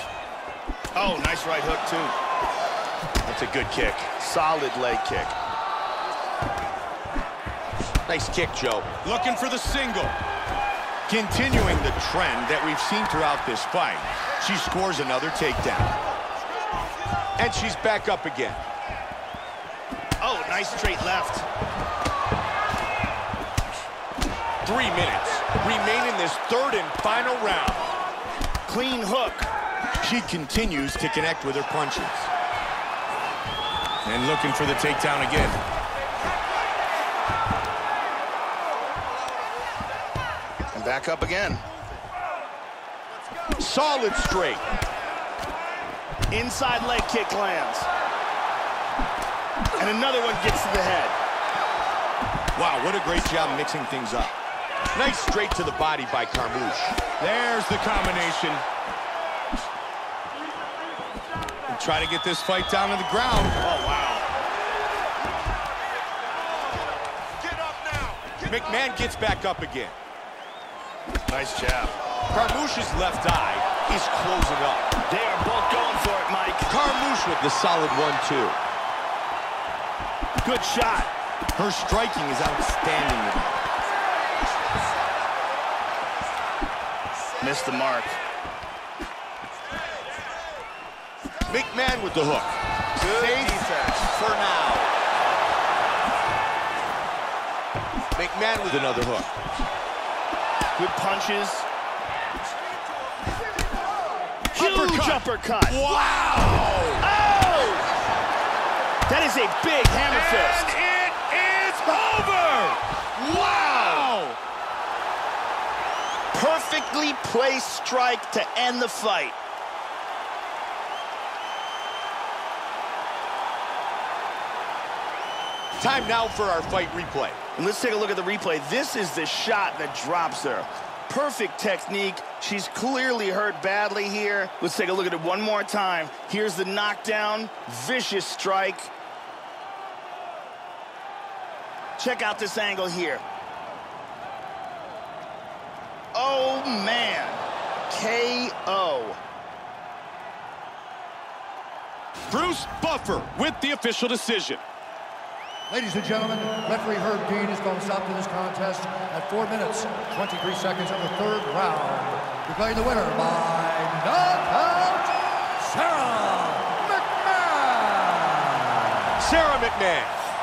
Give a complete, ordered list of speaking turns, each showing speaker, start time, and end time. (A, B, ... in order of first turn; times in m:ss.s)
0:00.9-0:02.2 A
0:03.2-0:04.1 B
0:04.2-0:05.3 A
0:08.0-0:10.2 B
0:11.1-0:15.9 B
0:17.4-0:18.6 B
0:20.2-0:21.5 A
0:24.6-0:27.8 B
0:28.6-0:29.5 A
0:30.0-0:32.3 B
0:34.0-0:35.6 B
0:40.7-0:41.6 A
0:43.6-0:44.6 B
0:46.3-0:47.9 A
0:49.8-0:51.2 A
0:52.5-0:54.3 B
0:54.9-0:58.6 B
1:01.7-1:03.6 B
1:03.6-1:04.2 A
1:08.4-1:10.0 B
1:11.3-1:11.9 A
1:12.3-1:14.9 B
1:15.0-1:16.7 A
1:16.7-1:18.6 B
1:20.4-1:21.1 A
1:21.5-1:23.6 B
1:27.4-1:28.2 A
1:31.4-1:34.9 B
1:33.0-1:34.0 A
1:38.1-1:39.3 B
1:40.8-1:41.7 A
1:44.5-1:46.0 A
1:44.5-1:47.0 B
1:47.0-1:47.9 A
1:49.1-1:50.7 A
1:50.1-1:54.4 B
1:56.3-1:59.4 A
2:05.8-2:07.4 B
2:07.6-2:18.9 A
2:22.0-2:23.2 A
2:26.1-2:29.2 A
2:32.3-2:34.6 B
2:35.7-2:49.0 C
2:49.2-2:50.2 B